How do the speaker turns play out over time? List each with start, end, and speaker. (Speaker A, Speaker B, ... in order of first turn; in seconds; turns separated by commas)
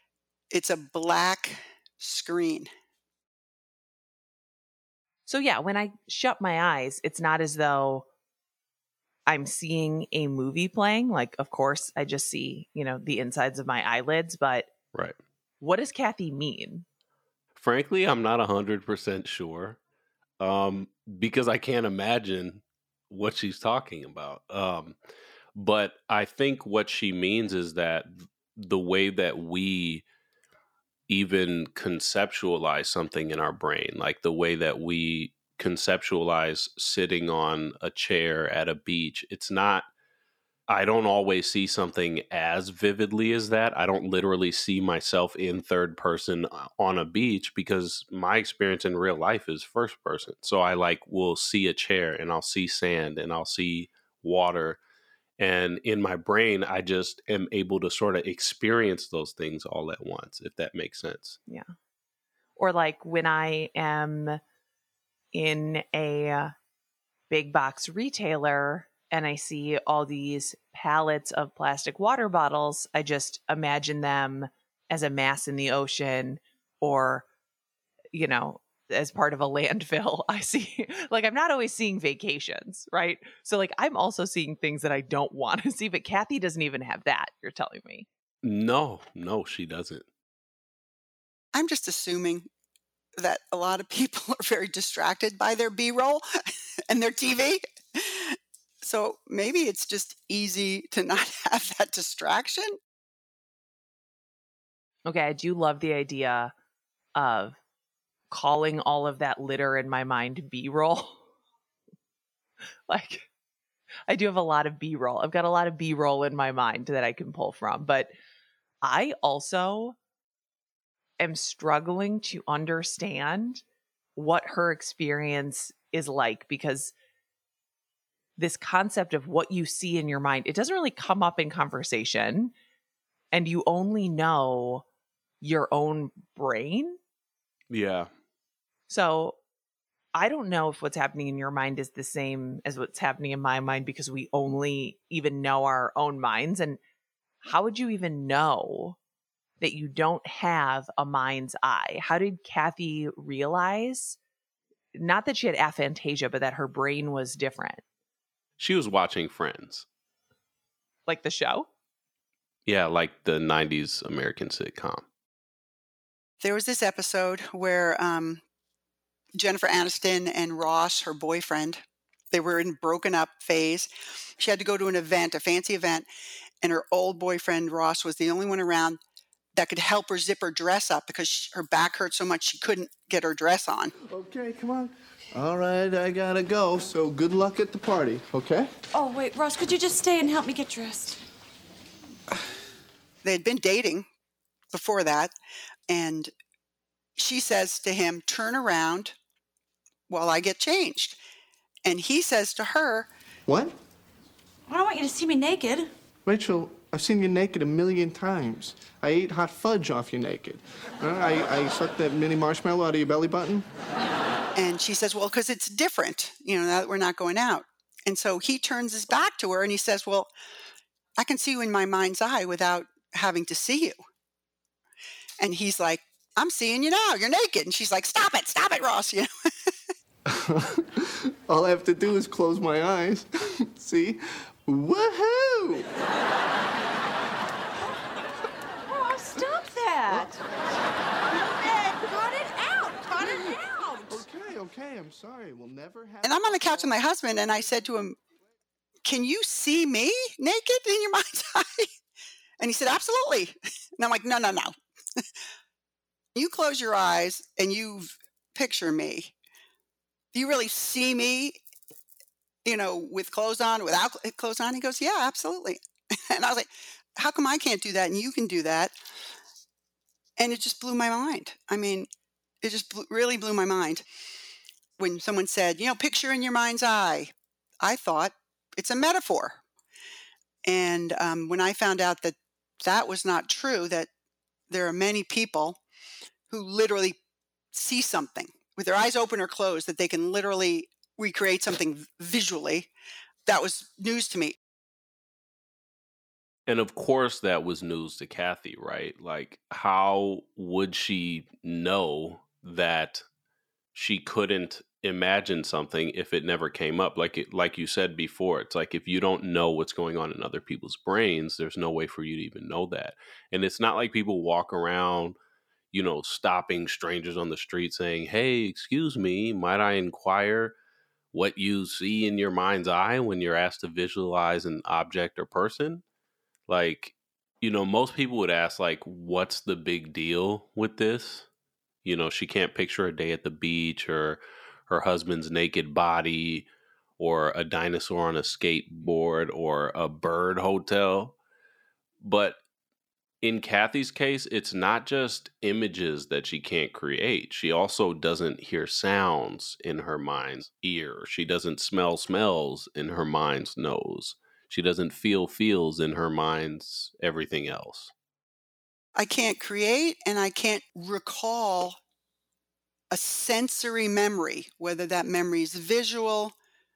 Speaker A: 0.5-2.7, Speaker B: 5.3-8.1, Speaker B: 9.3-14.7, Speaker B: 15.6-16.9, Speaker C: 17.6-19.8, Speaker C: 20.4-24.9, Speaker C: 25.6-30.1, Speaker C: 31.1-39.9, Speaker C: 40.7-54.8, Speaker C: 55.4-61.4, Speaker B: 62.6-64.4, Speaker B: 65.3-66.5, Speaker B: 67.3-77.3, Speaker B: 78.1-88.1, Speaker C: 88.4-90.0, Speaker A: 91.5-92.5, Speaker A: 93.2-96.2, Speaker A: 96.9-102.7, Speaker B: 105.0-106.5, Speaker B: 107.2-107.6, Speaker B: 108.3-111.2, Speaker B: 112.9-113.3, Speaker B: 114.1-118.1, Speaker B: 118.8-120.0, Speaker B: 121.2-123.6, Speaker B: 124.2-126.9, Speaker B: 128.4-132.5, Speaker B: 133.3-134.8, Speaker B: 135.4-137.0, Speaker C: 137.7-138.1, Speaker B: 138.9-139.4, Speaker B: 140.1-146.8, Speaker B: 147.4-149.0, Speaker B: 149.6-154.2, Speaker B: 154.9-157.8, Speaker C: 158.6-159.8, Speaker B: 161.1-161.7, Speaker C: 162.7-165.0, Speaker A: 166.4-168.4, Speaker A: 169.4-176.1, Speaker A: 176.6-179.0, Speaker A: 179.5-183.9, Speaker D: 184.1-188.7, Speaker E: 188.9-191.2, Speaker A: 193.2-194.1, Speaker A: 194.7-195.3, Speaker A: 195.9-196.3, Speaker A: 197.2-199.1, Speaker A: 200.1-201.2, Speaker A: 201.8-203.1, Speaker D: 203.5-203.7, Speaker E: 204.7-205.9, Speaker D: 206.2-213.7, Speaker A: 214.6-220.3, Speaker A: 221.2-224.0, Speaker A: 225.4-229.7, Speaker D: 230.3-235.9, Speaker E: 238.9-240.4, Speaker D: 240.1-240.4, Speaker E: 241.3-244.2, Speaker D: 244.1-247.0, Speaker A: 246.2-248.2, Speaker A: 249.0-251.9, Speaker A: 252.6-254.7, Speaker A: 256.3-259.3, Speaker A: 260.3-261.6, Speaker A: 262.6-265.8, Speaker A: 266.3-268.9, Speaker A: 270.4-272.1, Speaker A: 272.6-274.0, Speaker A: 275.0-279.6, Speaker A: 280.6-284.1, Speaker A: 284.7-285.8, Speaker A: 286.5-287.2, Speaker A: 287.7-292.9, Speaker A: 293.5-294.6, Speaker C: 296.7-303.2, Speaker C: 303.9-315.3, Speaker C: 315.9-320.7, Speaker C: 321.3-326.0, Speaker C: 326.7-331.5, Speaker C: 332.0-336.7, Speaker C: 337.2-341.4, Speaker C: 342.2-342.6, Speaker C: 343.4-358.1, Speaker A: 359.2-362.0, Speaker A: 363.1-366.6